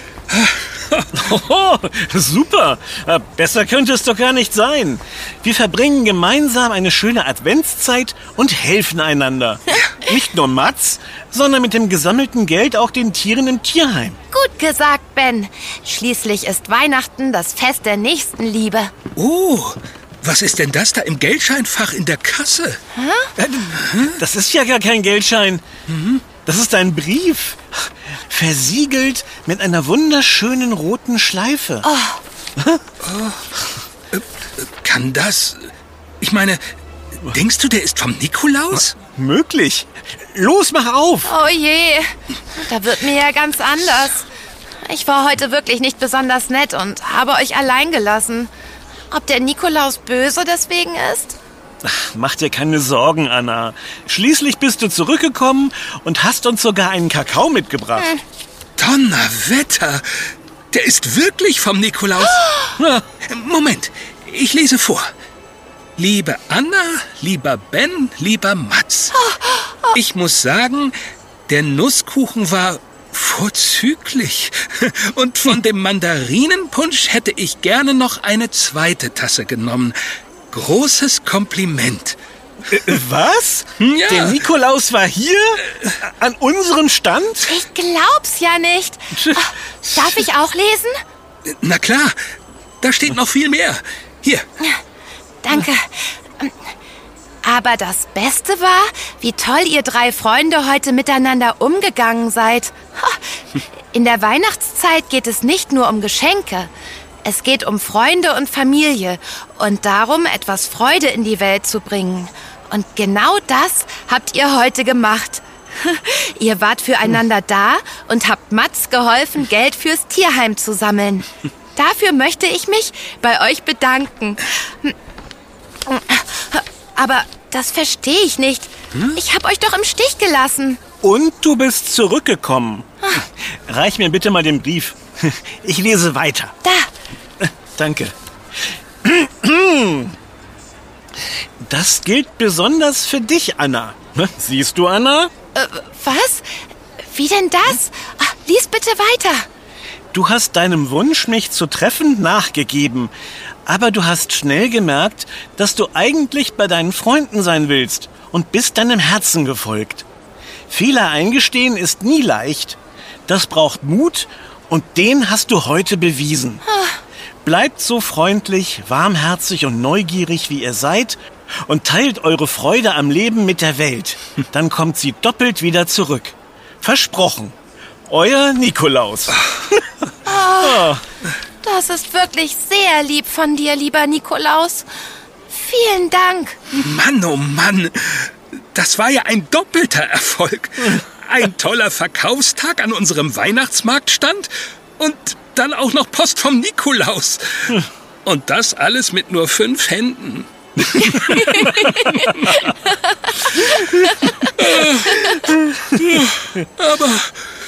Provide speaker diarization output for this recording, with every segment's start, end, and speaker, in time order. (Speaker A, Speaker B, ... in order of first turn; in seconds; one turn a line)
Speaker A: 0.3-1.1
Speaker B: 1.1-14.2
Speaker C: 14.3-18.9
Speaker A: 19.2-22.8
Speaker C: 22.9-23.3
Speaker B: 23.4-25.6
Speaker A: 23.8-24.2
Speaker A: 25.9-26.2
Speaker B: 26.4-31.9
Speaker C: 31.8-32.2
Speaker B: 32.6-32.8
Speaker A: 33.0-33.5
Speaker A: 34.1-35.7
Speaker A: 36.2-36.6
Speaker A: 37.2-39.0
Speaker B: 38.7-41.3
Speaker C: 41.2-44.3
Speaker C: 44.9-48.5
Speaker C: 49.1-51.4
Speaker B: 51.8-58.1
Speaker A: 58.8-65.1
Speaker B: 62.8-63.0
Speaker A: 66.0-69.2
Speaker C: 69.1-70.0
Speaker A: 69.9-71.0
Speaker A: 71.5-80.0
Speaker A: 80.5-82.2
Speaker B: 82.7-87.5
Speaker A: 83.8-84.4
Speaker C: 87.4-90.9
Speaker A: 91.5-92.2
Speaker A: 92.8-94.5
Speaker C: 95.4-96.6
Speaker C: 97.4-103.2
Speaker C: 103.9-106.7
Speaker C: 107.2-125.0
Speaker C: 125.9-130.8
Speaker B: 131.0-136.5
Speaker B: 137.4-138.1
Speaker B: 139.0-140.2
Speaker B: 141.6-145.3
Speaker C: 145.6-146.5
Speaker C: 147.0-149.5
Speaker B: 150.1-153.1
Speaker B: 153.7-160.1
Speaker B: 160.7-166.6
Speaker C: 166.7-167.0
Speaker B: 167.4-177.6
Speaker B: 178.1-179.6
Speaker C: 180.2-180.9
Speaker B: 180.6-181.0
Speaker C: 181.6-184.9
Speaker C: 185.5-186.7
Speaker A: 186.7-207.4
Speaker C: 201.3-202.3
Speaker C: 202.8-204.4